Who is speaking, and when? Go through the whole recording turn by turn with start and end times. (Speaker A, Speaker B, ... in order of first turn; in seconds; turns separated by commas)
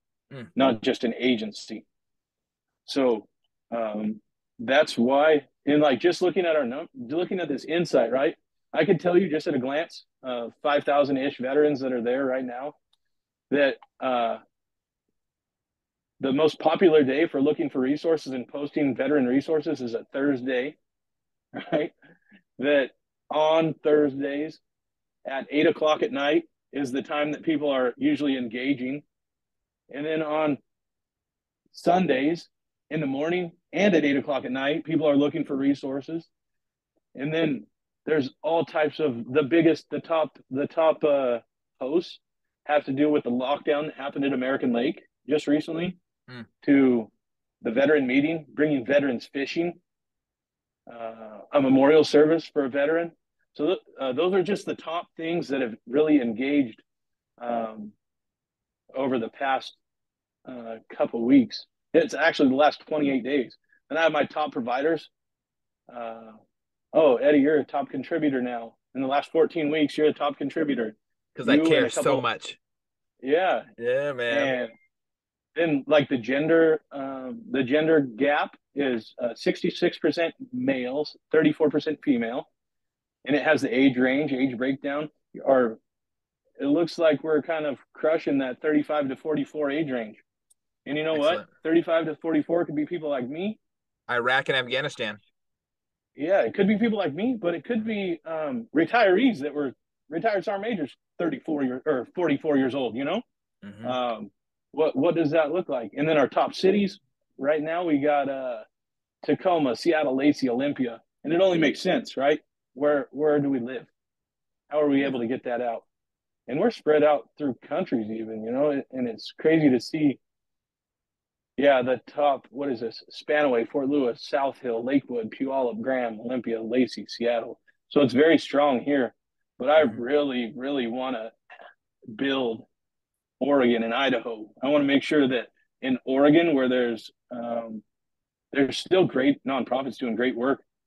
Speaker A: 0.5-1.8, Speaker A: 2.9-12.8, Speaker A: 13.5-14.4, Speaker A: 16.2-20.8, Speaker A: 21.5-21.9, Speaker A: 22.6-24.6, Speaker A: 25.2-29.0, Speaker A: 29.9-30.6, Speaker A: 31.7-36.3, Speaker A: 37.1-46.0, Speaker A: 46.6-47.1, Speaker A: 47.6-49.8, Speaker A: 50.9-56.8, Speaker A: 57.4-57.9, Speaker A: 58.9-59.8, Speaker A: 60.5-65.1, Speaker A: 65.9-66.4, Speaker A: 66.9-72.2, Speaker B: 71.3-72.6, Speaker A: 73.2-73.7, Speaker B: 73.8-74.5, Speaker A: 74.3-74.7, Speaker A: 75.5-82.5, Speaker A: 83.2-85.8, Speaker A: 86.6-90.2, Speaker A: 90.8-93.6, Speaker B: 91.1-91.5, Speaker B: 94.1-95.2, Speaker A: 96.2-103.2, Speaker B: 103.6-104.0, Speaker A: 103.8-108.6, Speaker A: 109.2-113.9, Speaker A: 114.7-115.8, Speaker A: 116.5-120.2, Speaker A: 121.6-131.3, Speaker A: 132.1-132.7, Speaker A: 133.4-137.8, Speaker A: 138.5-140.6